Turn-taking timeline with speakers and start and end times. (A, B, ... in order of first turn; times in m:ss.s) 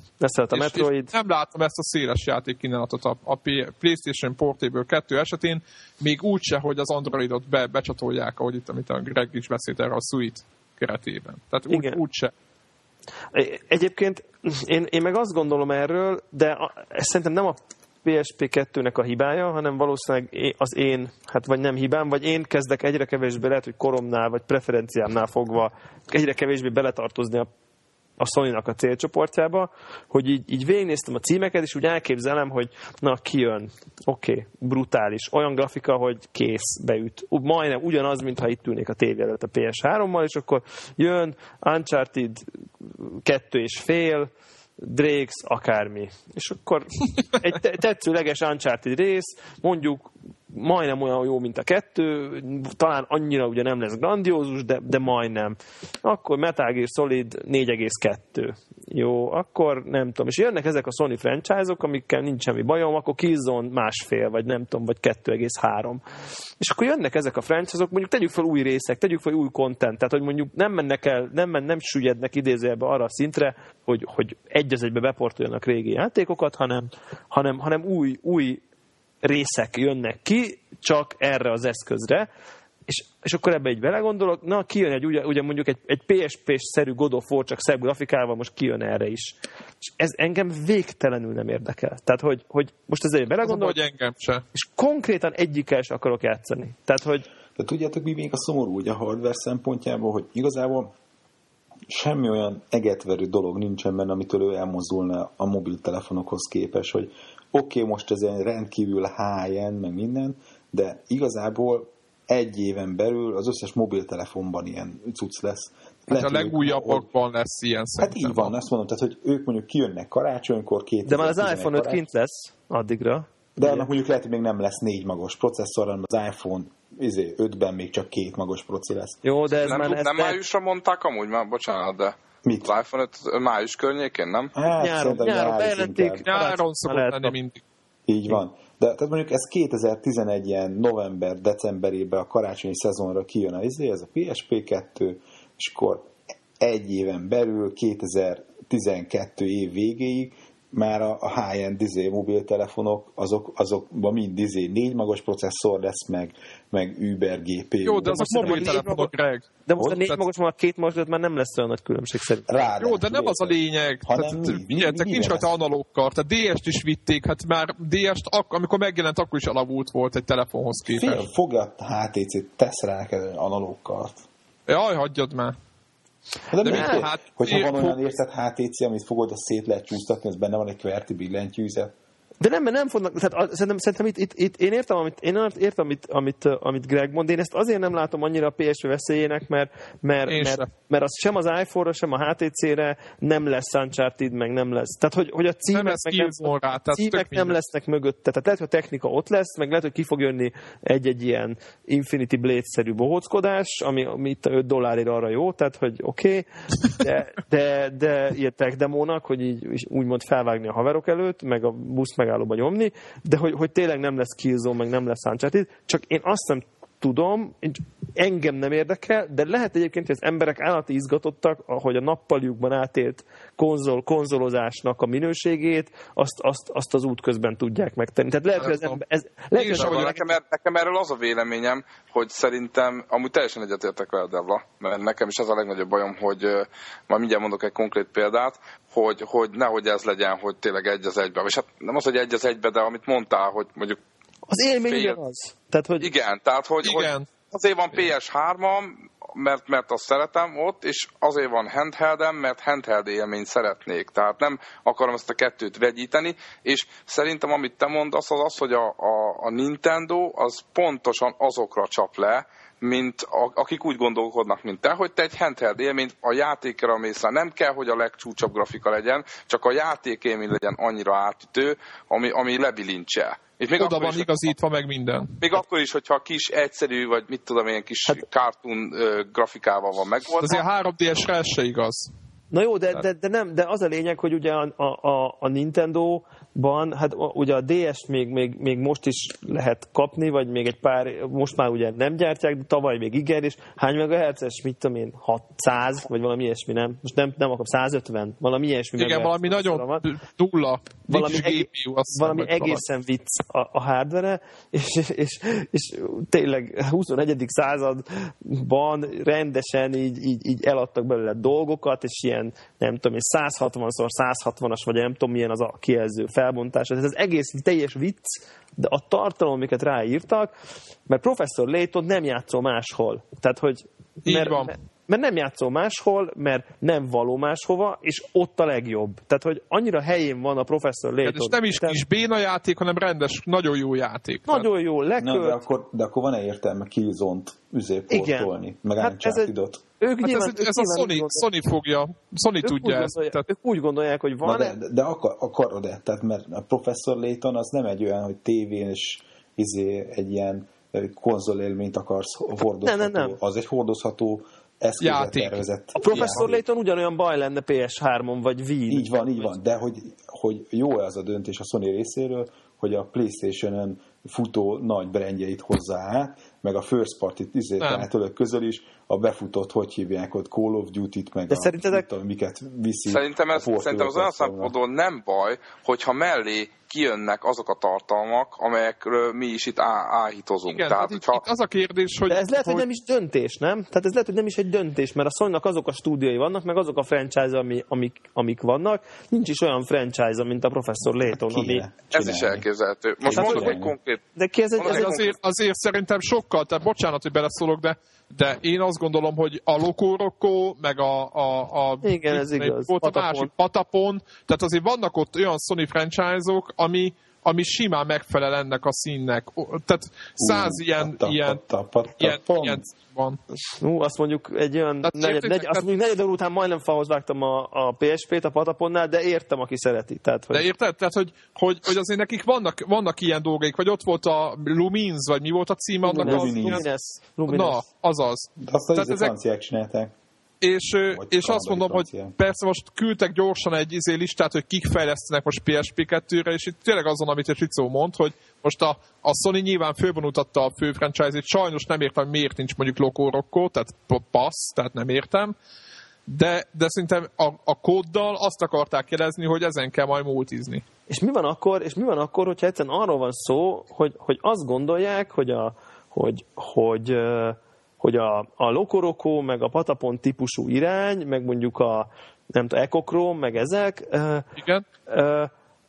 0:00.2-0:01.1 A
0:00.5-0:12.3 B
0:11.7-0:12.0 A
0:13.3-0:27.5 A
0:28.2-1:06.0 A
1:06.6-1:18.6 A
1:19.2-1:22.3 A
1:22.9-1:33.8 A
1:33.4-1:34.4 B
1:34.5-1:37.3 A
1:37.6-1:40.9 C
1:41.9-1:57.1 C
1:56.1-1:58.5 B
1:58.0-2:02.0 C
2:01.1-2:03.8 A
2:03.6-2:09.2 C
2:09.2-2:10.4 A
2:09.6-2:14.5 D
2:12.4-2:12.7 C
2:14.6-2:16.2 C
2:14.8-2:17.3 A
2:16.3-2:17.6 B
2:18.1-2:38.9 C
2:37.8-2:39.5 B
2:38.0-2:39.1 A
2:39.7-2:42.7 A
2:39.8-2:40.1 C
2:42.5-2:45.5 C
2:42.8-2:51.2 B
2:50.9-2:54.2 C
2:54.7-2:55.6 B
2:56.5-3:01.9 C
2:56.6-2:57.0 A
2:56.6-2:58.0 B
3:02.4-3:50.3 A
3:10.3-3:10.7 B
3:15.7-3:17.6 B
3:48.6-3:49.0 B
3:49.6-3:50.1 B
3:49.7-4:04.0 D
4:04.5-4:06.1 A
4:04.9-4:05.2 D
4:06.0-4:34.5 D
4:06.8-4:07.3 B
4:33.8-4:35.4 B
4:35.4-4:40.6 D
4:40.4-4:42.1 B
4:42.5-5:00.0 A
4:59.0-5:02.8 B
5:01.1-5:20.5 A
5:21.1-5:32.0 A
5:24.2-5:24.7 B
5:31.2-5:34.7 B
5:34.5-5:35.6 A
5:35.2-5:39.8 C
5:38.1-5:41.4 A
5:40.2-5:43.4 B
5:42.6-5:44.8 A
5:44.4-5:56.6 C
5:52.8-5:53.4 A
5:55.0-5:55.6 B
5:56.0-5:59.1 A
5:58.9-6:14.7 C
6:07.8-6:08.1 B
6:11.5-6:12.0 A
6:13.1-6:21.4 D
6:20.7-6:22.8 B
6:22.3-6:31.9 A
6:31.1-6:32.6 C
6:32.1-6:34.2 D
6:33.2-6:34.0 C
6:34.4-6:35.2 A
6:34.8-6:35.3 D
6:34.9-6:51.6 B
6:42.0-6:43.5 A
6:50.4-6:52.8 C
6:52.2-6:53.4 B
6:53.8-7:00.7 A
6:55.0-6:55.8 B
7:00.5-7:06.8 B
7:06.0-7:07.8 A
7:06.2-7:06.8 C
7:07.5-7:09.3 B
7:08.6-7:10.1 C
7:10.6-7:25.6 B
7:11.1-7:12.3 C
7:26.3-7:30.8 B
7:31.1-7:44.5 A
7:44.6-7:44.8 B
7:45.1-7:45.5 A